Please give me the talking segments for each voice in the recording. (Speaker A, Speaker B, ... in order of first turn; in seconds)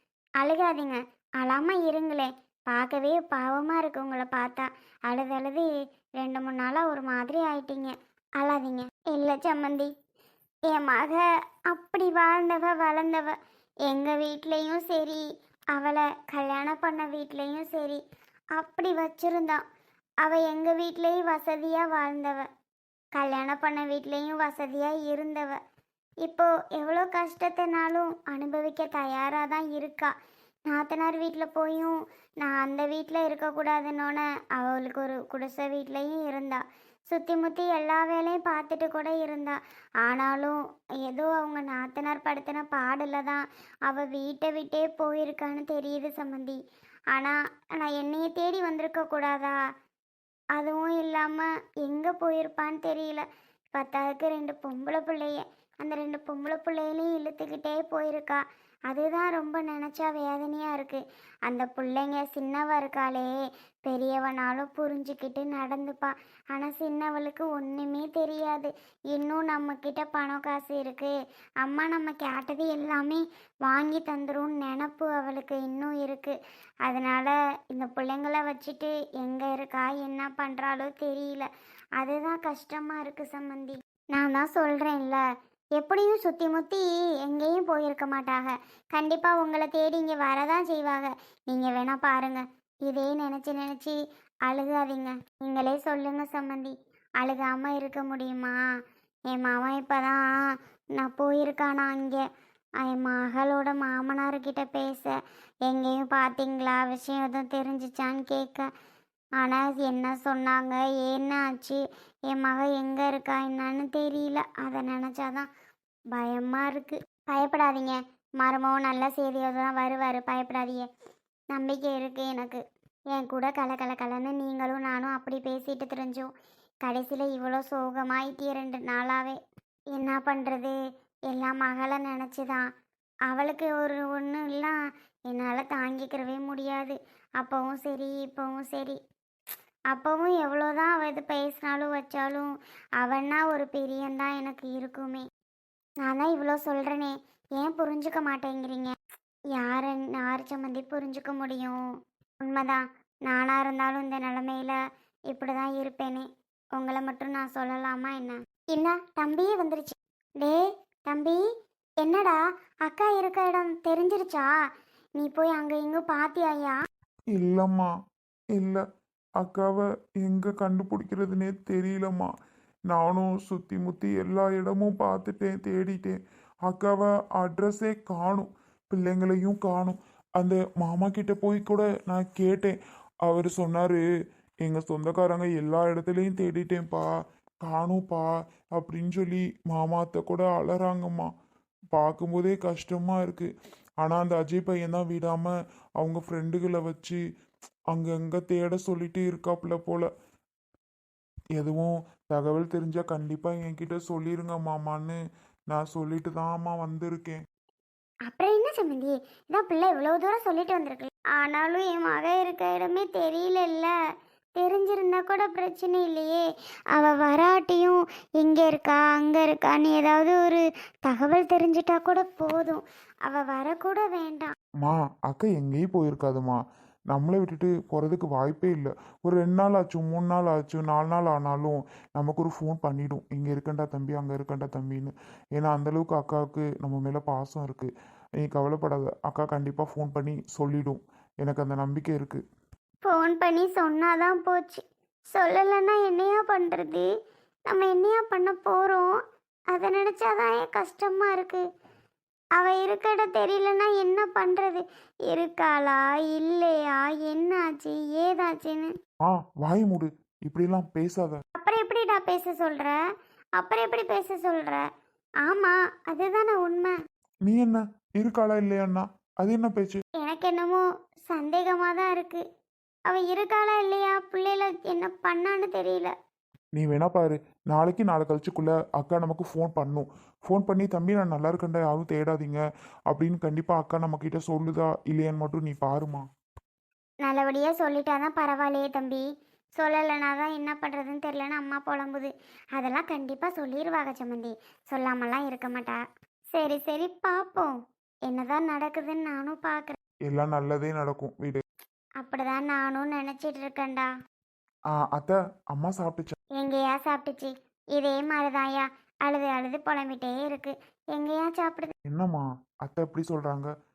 Speaker A: 0.4-5.7, 6.2-9.9, 10.7-18.0, 18.6-19.6, 20.2-22.5, 23.1-25.6, 26.2-30.1, 30.7-46.6, 47.1-49.6, 50.6-63.3, 63.8-81.5, 82.0-85.2, 85.8-98.6, 99.3-102.2, 102.8-105.1, 105.7-108.7, 109.4-115.5, 116.2-120.9, 121.5-126.3, 126.8-129.4, 129.9-130.8, 131.3-132.7, 133.3-134.8, 135.3-139.0, 139.9-145.2, 146.0-148.9, 149.6-151.8, 152.4-154.8, 155.3-161.4, 162.0-164.5, 165.2-166.8, 208.3-213.9, 214.6-224.5, 243.0-247.1, 247.7-249.2, 249.7-251.6, 252.6-258.9, 261.6-263.0, 263.6-264.9, 265.4-266.9, 270.2-272.4, 273.1-276.1, 287.2-289.2, 289.8-296.0, 296.5-297.7, 298.3-300.0, 302.2-304.1, 306.6-311.9
Speaker B: 167.3-167.9, 168.6-168.8, 169.4-172.3, 172.9-184.0, 184.7-187.1, 187.7-191.3, 191.9-193.5, 194.0-197.2, 197.9-200.1, 201.6-205.2, 205.7-207.4, 224.8-226.6, 227.1-237.9, 238.4-242.4, 259.2-261.4, 267.5-270.0, 276.8-286.2, 300.3-301.6, 304.9-306.3, 312.1-313.7